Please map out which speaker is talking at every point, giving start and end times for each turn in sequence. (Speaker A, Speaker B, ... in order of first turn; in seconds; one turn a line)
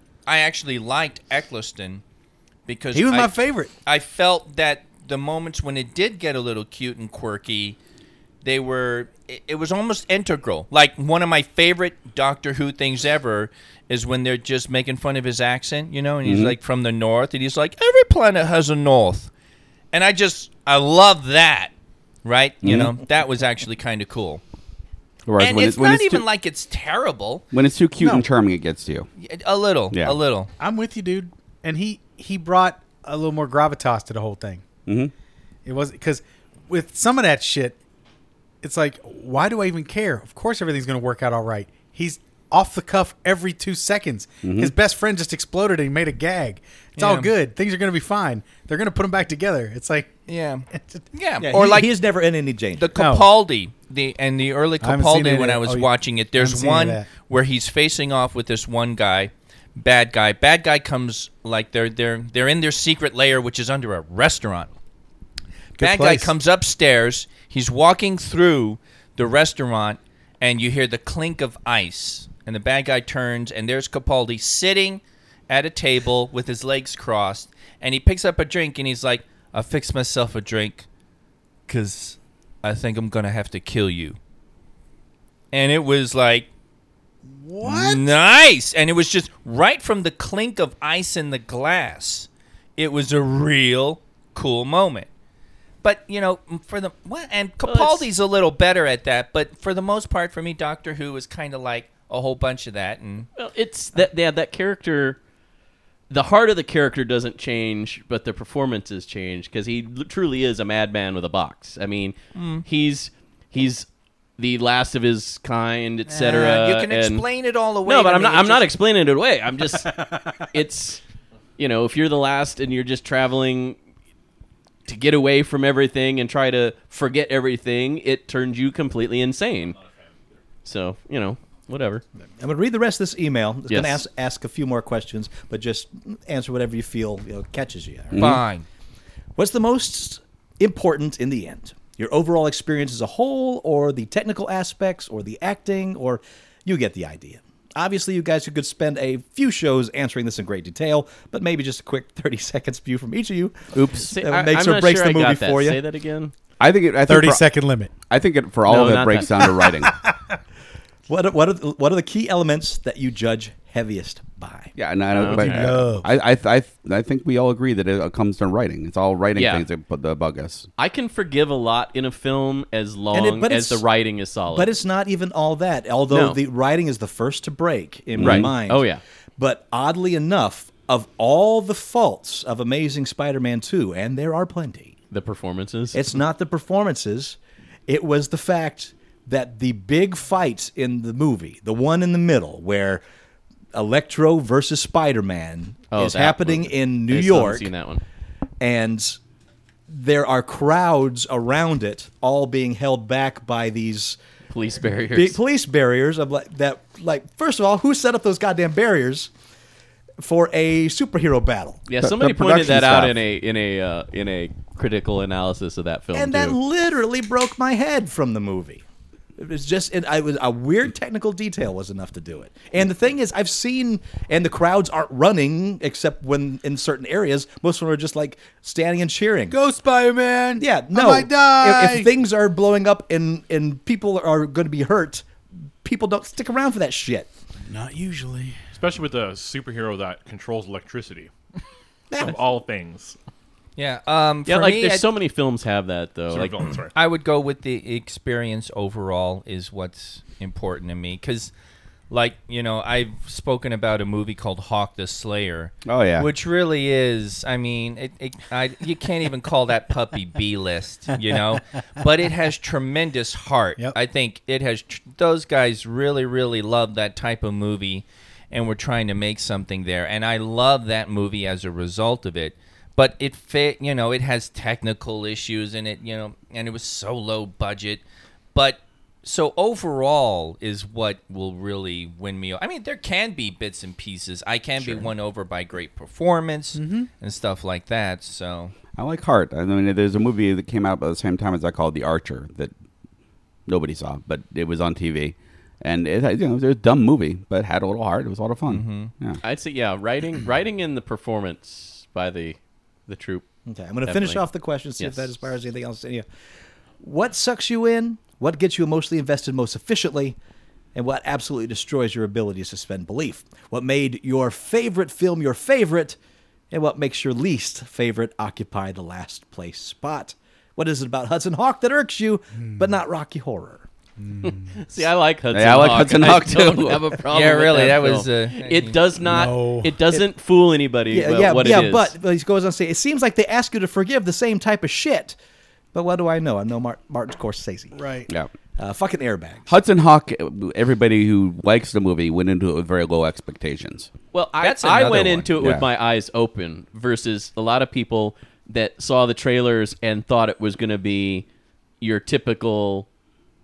Speaker A: 0.3-2.0
Speaker A: 2.7-7.8
Speaker B: 2.9-3.7
Speaker A: 8.4-19.3
Speaker C: 16.2-16.6
Speaker A: 19.9-21.7
Speaker A: 22.2-24.4
Speaker C: 22.6-22.9
Speaker C: 25.3-26.2
Speaker A: 25.4-27.4
Speaker C: 27.5-29.1
Speaker A: 29.2-30.5
Speaker C: 29.9-30.2
Speaker B: 30.6-34.6
Speaker C: 34.9-35.1
Speaker B: 35.6-37.8
Speaker B: 38.6-50.2
Speaker C: 44.4-44.7
Speaker A: 47.0-47.3
Speaker A: 50.3-51.9
Speaker B: 50.7-51.0
Speaker D: 51.4-53.0
Speaker A: 52.8-64.7
Speaker B: 53.0-53.3
Speaker B: 54.8-57.1
Speaker B: 65.8-66.3
Speaker A: 65.8-80.9
Speaker A: 81.7-84.2
Speaker A: 85.5-86.5
Speaker B: 87.3-88.1
Speaker A: 87.6-95.1
Speaker A: 95.8-103.3
Speaker E: 97.6-98.1
Speaker E: 103.4-105.2
Speaker E: 106.1-117.3
Speaker A: 112.3-112.7
Speaker A: 116.1-118.7
Speaker E: 117.8-121.0
Speaker E: 121.6-123.8
Speaker E: 124.9-129.8
Speaker E: 130.7-132.0
Speaker D: 132.4-138.4
Speaker E: 133.7-134.0
Speaker C: 138.1-138.4
Speaker A: 138.2-138.7
Speaker D: 139.4-155.8
Speaker E: 153.7-156.3
Speaker C: 156.6-157.5
Speaker B: 157.1-157.9
Speaker C: 158.1-159.9
Speaker E: 158.7-159.4
Speaker B: 159.7-160.2
Speaker D: 161.1-164.8
Speaker C: 164.8-170.7
Speaker E: 165.1-165.8
Speaker B: 165.3-166.1
Speaker E: 169.4-169.7
Speaker E: 170.8-174.7
Speaker D: 173.1-173.8
Speaker D: 174.5-185.0
Speaker E: 176.1-176.4
Speaker C: 178.2-178.5
Speaker E: 178.2-179.0
Speaker E: 185.1-186.1
Speaker D: 185.9-193.0
Speaker D: 193.7-197.7
Speaker E: 195.9-198.0
Speaker D: 198.6-199.2
Speaker D: 199.9-204.2
Speaker E: 204.5-205.4
Speaker D: 205.1-209.3
Speaker D: 210.2-211.9
Speaker E: 211.9-216.6
Speaker C: 212.0-213.2
Speaker D: 216.1-218.8
Speaker D: 219.4-229.6
Speaker B: 229.5-232.1
Speaker D: 230.6-235.3
Speaker D: 235.8-237.3
Speaker B: 237.7-238.6
Speaker F: 238.7-241.3
Speaker F: 242.2-243.2
Speaker A: 243.8-245.1
Speaker E: 244.5-246.6
Speaker F: 246.3-246.9
Speaker A: 246.9-251.5
Speaker A: 252.1-278.0
Speaker C: 255.9-256.3
Speaker A: 278.5-288.8
Speaker C: 284.8-285.1
Speaker B: 286.8-287.1
Speaker C: 289.0-292.7
Speaker C: 293.7-299.4
Speaker A: 298.7-299.1
Speaker E: 299.4-303.4
Speaker D: 303.7-306.2
Speaker E: 304.1-304.4
Speaker E: 305.0-305.3
Speaker D: 307.0-310.4
Speaker D: 310.9-316.2
Speaker D: 316.7-323.9
Speaker B: 322.6-322.9
Speaker B: 324.2-324.8
Speaker E: 324.4-332.1
Speaker C: 325.5-327.1
Speaker A: 327.3-329.0
Speaker B: 329.2-330.0
Speaker D: 331.1-335.4
Speaker D: 335.9-338.0
Speaker B: 337.9-338.3
Speaker D: 338.8-339.7
Speaker C: 339.7-344.1
Speaker E: 344.3-351.5
Speaker A: 344.6-345.5
Speaker C: 345.6-345.9
Speaker E: 352.0-353.1